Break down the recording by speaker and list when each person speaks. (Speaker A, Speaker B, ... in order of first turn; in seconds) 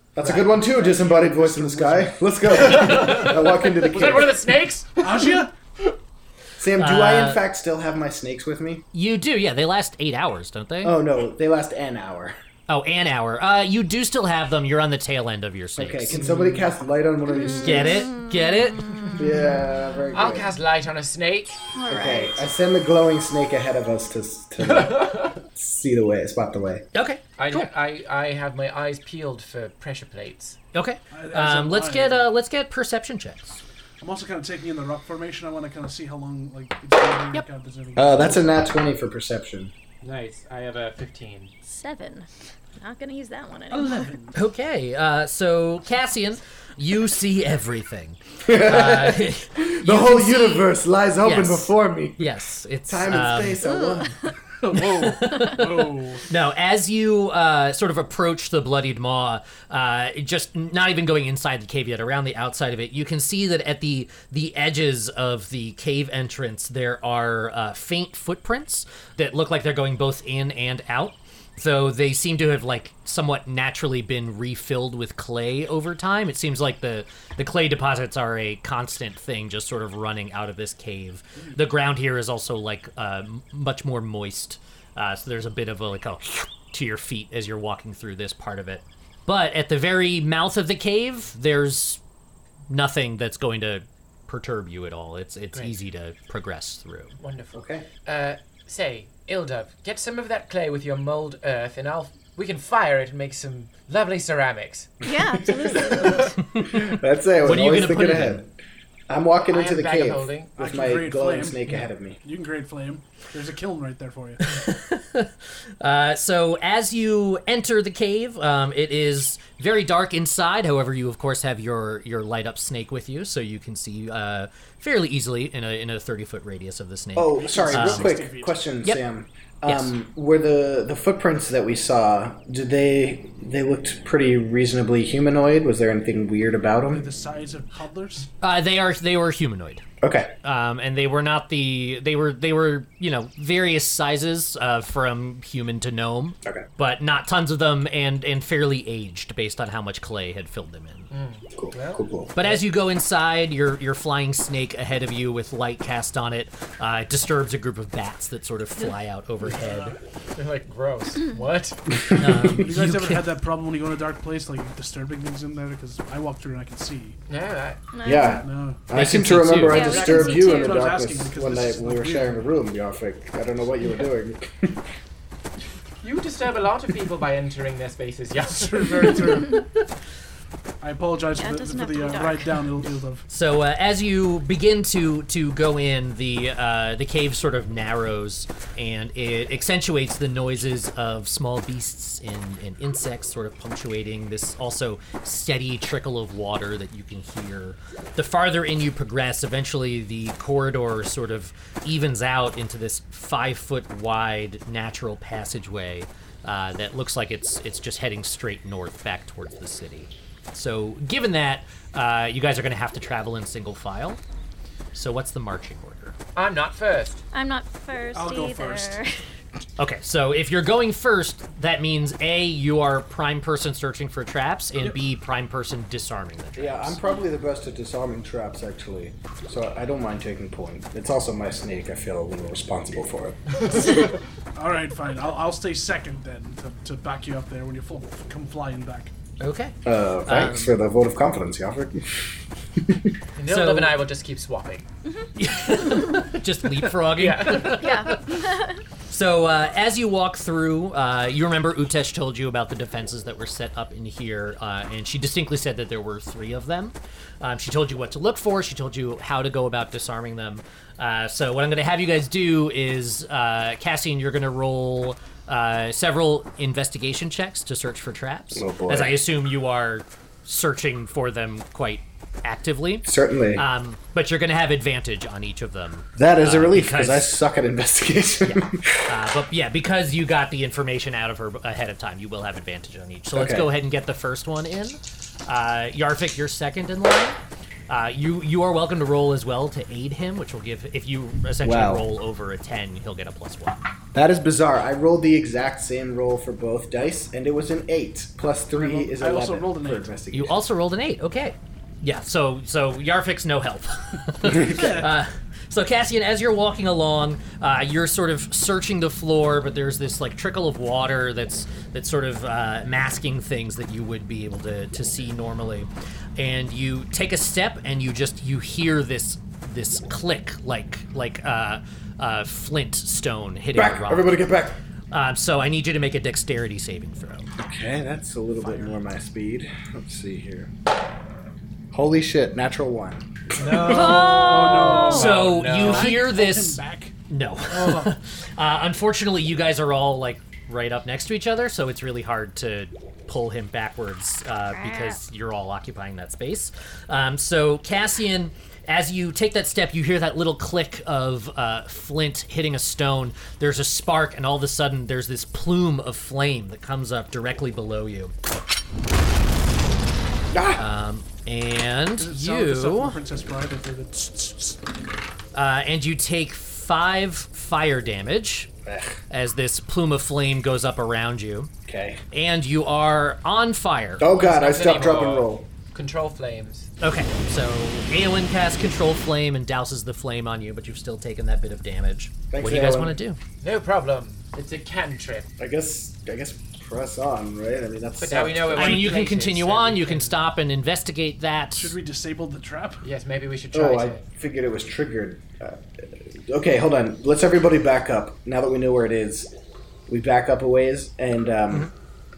Speaker A: 0.1-4.4, 6.6-8.8, 10.8-12.3, 15.8-18.1, 19.2-20.5, 21.9-26.8, 38.0-39.7, 48.4-52.3, 52.9-54.3, 97.5-97.9, 105.4-108.5, 109.1-112.2, 127.2-137.1, 140.0-140.3, 151.6-152.3, 162.3-162.6, 168.0-174.8, 226.6-233.9, 239.8-242.2, 242.8-243.1, 268.6-269.2, 273.0-273.6, 276.1-279.1, 283.3-283.7, 291.6-292.1, 294.1-300.6, 323.7-324.8, 327.6-330.7, 331.9-334.2, 360.5-360.8, 368.8-369.2, 371.9-372.2, 374.2-375.7, 382.5-383.2, 385.6-389.1, 393.7-395.8, 396.5-399.5, 400.1-401.9
Speaker B: 0.2-3.2, 3.8-5.5, 31.1-32.3, 34.0-38.5, 43.7-44.4, 54.6-56.2, 110.6-114.5, 127.4-128.6, 136.9-138.3, 162.6-167.2, 168.4-168.8, 169.7-172.5, 178.5-179.6, 180.8-183.2, 218.1-219.0, 234.5-239.1, 298.7-300.1, 304.4-305.1, 328.6-329.0, 333.6-337.1, 337.7-338.1, 362.2-364.8, 391.8-393.0
Speaker C: 2.6-5.4, 20.1-21.6, 24.6-25.4, 27.4-30.6, 40.0-41.5, 97.2-105.0, 105.9-106.2, 109.5-110.5, 151.1-152.6, 159.8-161.8, 167.3-167.8, 176.0-179.5, 216.3-217.2, 243.3-244.9, 247.2-247.9, 333.6-336.2, 374.3-376.9, 383.6-385.5, 388.2-390.4, 393.0-394.2
Speaker D: 6.8-7.4, 8.9-11.0, 12.7-16.2, 17.6-19.1, 26.9-27.7, 30.7-33.6, 44.3-50.7, 51.2-53.6, 54.7-92.0, 92.7-97.2, 106.6-106.8, 107.4-108.4, 114.4-128.2, 129.7-129.9, 138.4-139.8, 140.4-151.1, 152.3-159.9, 162.1-163.3, 168.9-169.9, 183.3-214.2, 214.9-216.1, 219.8-227.0, 239.4-240.8, 243.4-244.0, 245.3-248.4, 249.1-277.3, 278.4-287.4, 287.9-293.8, 300.3-324.4, 325.1-327.5, 333.9-358.3, 360.8-363.2, 365.5-368.7, 369.3-371.7, 372.3-374.2, 377.0-383.4, 388.8-391.9
Speaker E: 17.3-19.4, 21.7-22.4, 41.6-44.1, 53.7-54.1, 105.0-106.4, 167.9-168.4, 169.7-170.8, 181.3-182.5, 217.3-219.1, 247.6-248.8, 333.9-335.3, 344.7-345.2